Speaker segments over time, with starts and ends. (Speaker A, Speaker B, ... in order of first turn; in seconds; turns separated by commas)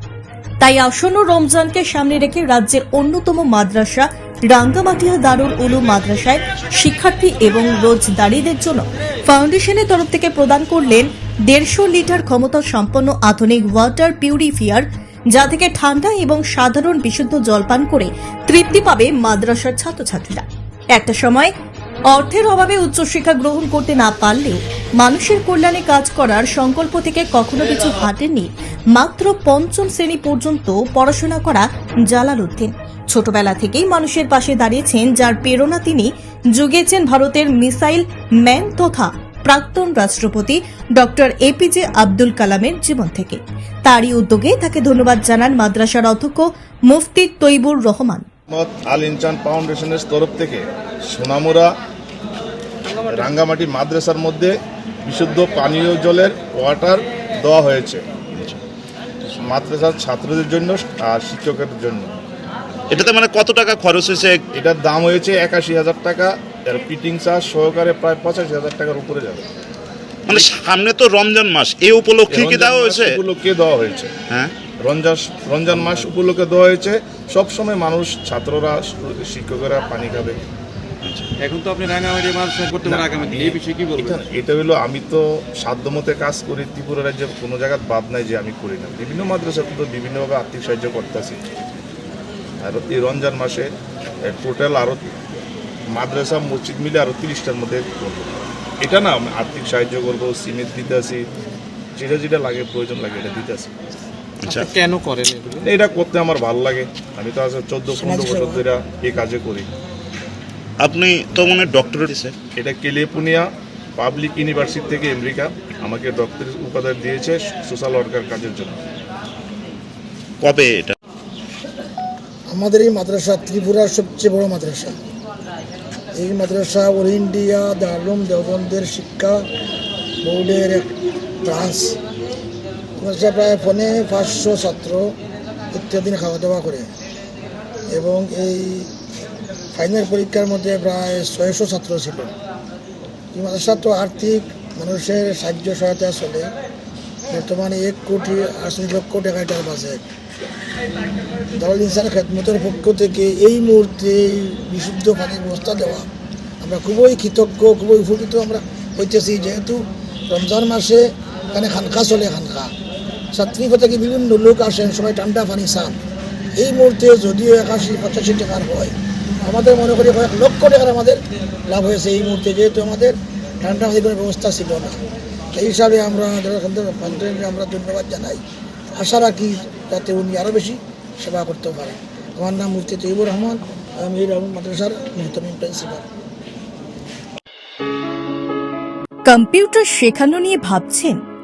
Speaker A: 0.6-21.5, Speaker A: 22.1-48.3, Speaker B: 48.5-50.6, Speaker B: 51.1-51.7, Speaker B: 53.0-54.5, Speaker B: 55.0-58.0, Speaker B: 59.4-62.1, Speaker C: 62.9-64.5, Speaker B: 64.5-69.4, Speaker C: 70.3-73.2, Speaker B: 72.3-74.1, Speaker C: 74.3-74.6, Speaker B: 74.8-80.3, Speaker D: 75.8-76.0, Speaker C: 81.0-81.3, Speaker D: 81.4-84.2, Speaker B: 82.8-91.4, Speaker B: 92.6-93.7, Speaker B: 94.2-95.0, Speaker B: 95.9-101.2, Speaker B: 102.0-103.7, Speaker C: 104.4-104.7, Speaker D: 104.8-105.5, Speaker B: 105.6-109.7, Speaker E: 108.0-108.6, Speaker C: 110.8-112.3, Speaker B: 112.5-118.8, Speaker C: 120.4-121.0, Speaker E: 122.5-125.0, Speaker E: 126.2-129.4, Speaker E: 130.2-130.9, Speaker E: 131.4-132.0, Speaker E: 133.0-135.1, Speaker E: 135.7-136.9, Speaker E: 137.9-138.9, Speaker E: 139.7-142.3, Speaker E: 143.3-146.5, Speaker E: 147.3-150.0, Speaker E: 151.6-156.1, Speaker E: 156.6-162.7, Speaker E: 163.3-166.0, Speaker E: 166.6-175.0, Speaker E: 175.5-178.4, Speaker E: 178.9-186.1, Speaker A: 189.3-191.2